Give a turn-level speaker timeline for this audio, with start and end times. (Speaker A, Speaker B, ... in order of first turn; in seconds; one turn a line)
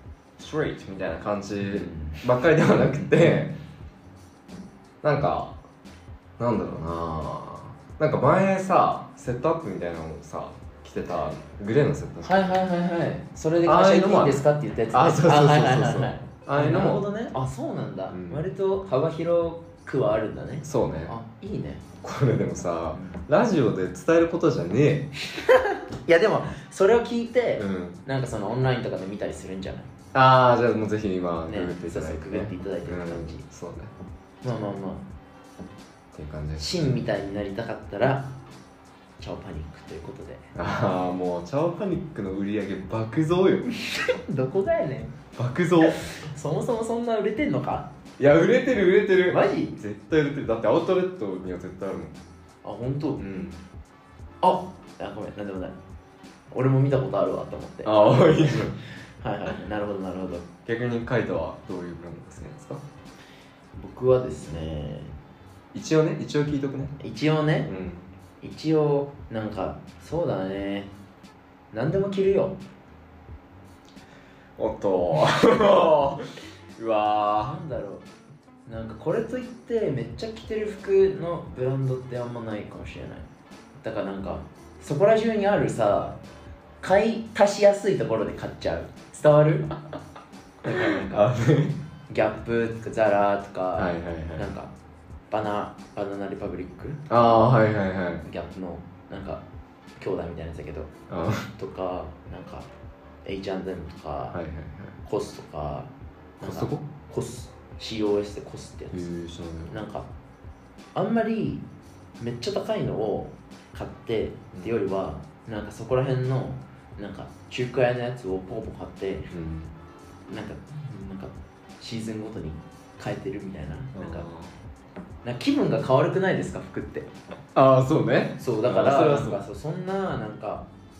Speaker A: 0.4-3.6
Speaker B: 1.6-2.2
Speaker B: 2.8-3.4
Speaker A: 5.0-5.6
Speaker A: 6.4-12.5
Speaker B: 12.2-21.8
Speaker A: 13.6-17.1
Speaker A: 18.1-18.4
Speaker A: 20.6-21.1
Speaker A: 22.0-25.1
Speaker B: 22.9-23.2
Speaker B: 25.4-29.9
Speaker A: 27.6-28.0
Speaker A: 30.1-33.9
Speaker B: 31.5-33.4
Speaker B: 34.4-35.0
Speaker A: 36.1-36.9
Speaker B: 36.6-38.3
Speaker B: 39.2-40.5
Speaker A: 40.5-43.7
Speaker B: 43.9-45.1
Speaker A: 45.4-46.0
Speaker B: 45.9-47.9
Speaker A: 48.2-52.1
Speaker B: 49.3-49.8
Speaker B: 52.6-53.2
Speaker A: 53.2-53.6
Speaker B: 54.4-55.8
Speaker B: 56.5-60.5
Speaker A: 57.8-58.8
Speaker A: 60.6-62.8
Speaker B: 63.8-65.2
Speaker A: 65.7-67.0
Speaker B: 67.0-67.7
Speaker A: 67.6-68.0
Speaker B: 68.4-70.9
Speaker B: 71.7-72.6
Speaker A: 74.6-77.6
Speaker B: 77.4-78.0
Speaker B: 78.7-83.3
Speaker B: 83.8-86.2
Speaker B: 86.8-89.7
Speaker B: 90.6-91.3
Speaker A: 90.7-91.8
Speaker B: 92.1-94.7
Speaker A: 93.8-94.5
Speaker B: 95.3-97.1
Speaker A: 97.1-98.2
Speaker B: 98.2-99.4
Speaker B: 100.0-100.9
Speaker A: 101.1-101.5
Speaker B: 101.6-102.7
Speaker B: 103.2-104.4
Speaker A: 104.3-105.0
Speaker B: 105.0-109.0
Speaker A: 106.4-106.8
Speaker A: 108.9-109.8
Speaker B: 109.7-110.1
Speaker B: 110.9-111.6
Speaker B: 112.2-119.3
Speaker A: 119.3-119.7
Speaker B: 120.3-124.3
Speaker A: 123.9-124.5
Speaker B: 125.2-127.1
Speaker A: 127.5-129.4
Speaker B: 128.4-130.7